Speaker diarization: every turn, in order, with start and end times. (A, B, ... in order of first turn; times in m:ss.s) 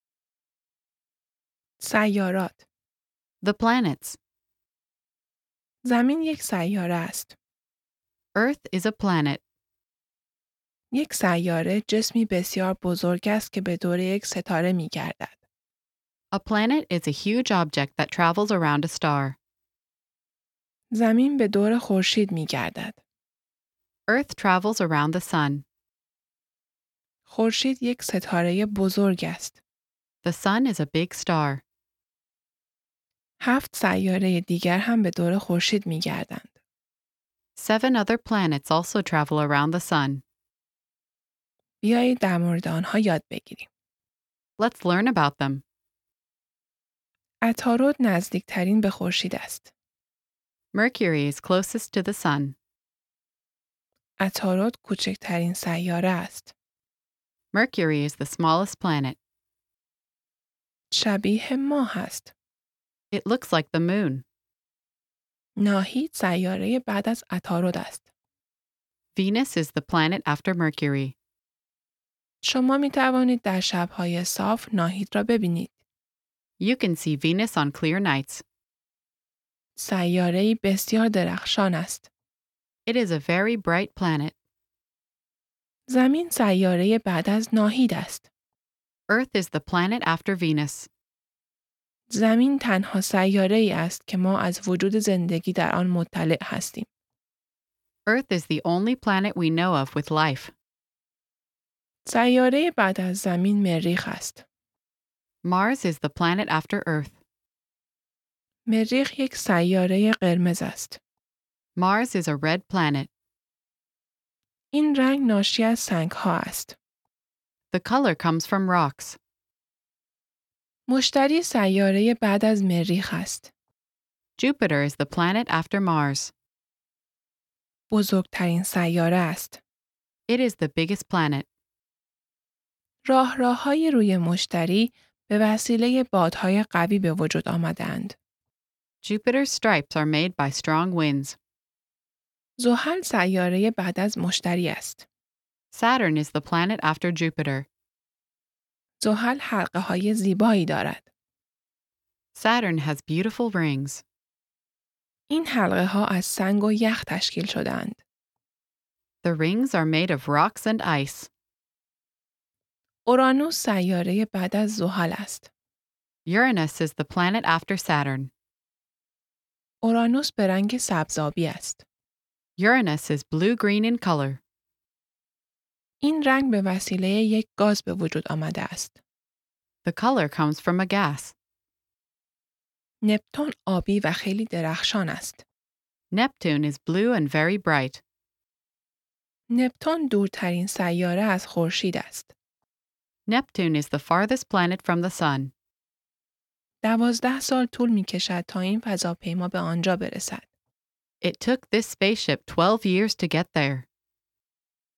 0:01.8-0:02.6 A
0:03.4-0:04.2 B
0:05.8-0:07.3 A
0:08.3-0:09.4 B
0:10.9-0:15.4 A
0:16.3-0:19.4 B
0:20.9-0:23.0 A
0:24.1-0:25.6 B
0:27.3-0:29.6 A
0:30.2-0:31.6 B
0:33.4-0:36.5 A
0:37.6-0:40.2 B
0:41.8-0:43.7 A
0:44.6-0:45.6 B
0:47.4-0:49.7 A
0:50.7-0:52.6 B
0:54.2-0:56.5 A
0:57.5-0:59.2 B
1:00.9-1:02.3 A
1:03.1-1:04.2 B
1:05.6-1:08.1 A
1:09.1-1:11.1 B
1:12.4-1:15.7 A
1:16.6-1:18.4 B
1:19.8-1:22.1 A
1:22.8-1:24.3 B
1:25.9-1:28.3 A
1:29.1-1:30.9 B
1:32.1-1:36.9 A
1:38.0-1:40.5 B
1:42.0-1:44.4 A
1:45.4-1:47.2 B
1:48.7-1:51.0 A
1:51.8-1:53.1 B
1:54.7-1:56.8 A
1:57.7-1:59.2 B
2:00.9-2:03.5 A
2:04.4-2:06.3 B
2:07.9-2:09.6 A
2:10.3-2:11.4 B
2:13.0-2:18.2 A
2:19.0-2:21.4 B
2:22.6-2:25.0 A
2:25.7-2:27.7 B
2:29.0-2:31.1 A
2:32.3-2:34.0 B
2:35.3-2:38.0 A
2:39.2-2:41.3 B
2:43.0-2:45.5 A
2:46.2-2:48.3 B
2:49.8-2:51.8 A
2:52.6-2:54.4 B
2:56.0-2:59.0 A
2:59.8-3:01.3 B
3:03.0-3:05.4 A
3:06.1-3:08.0 B
3:09.5-3:12.3 A
3:13.3-3:15.5 B
3:16.8-3:20.4 A
3:21.2-3:23.8 B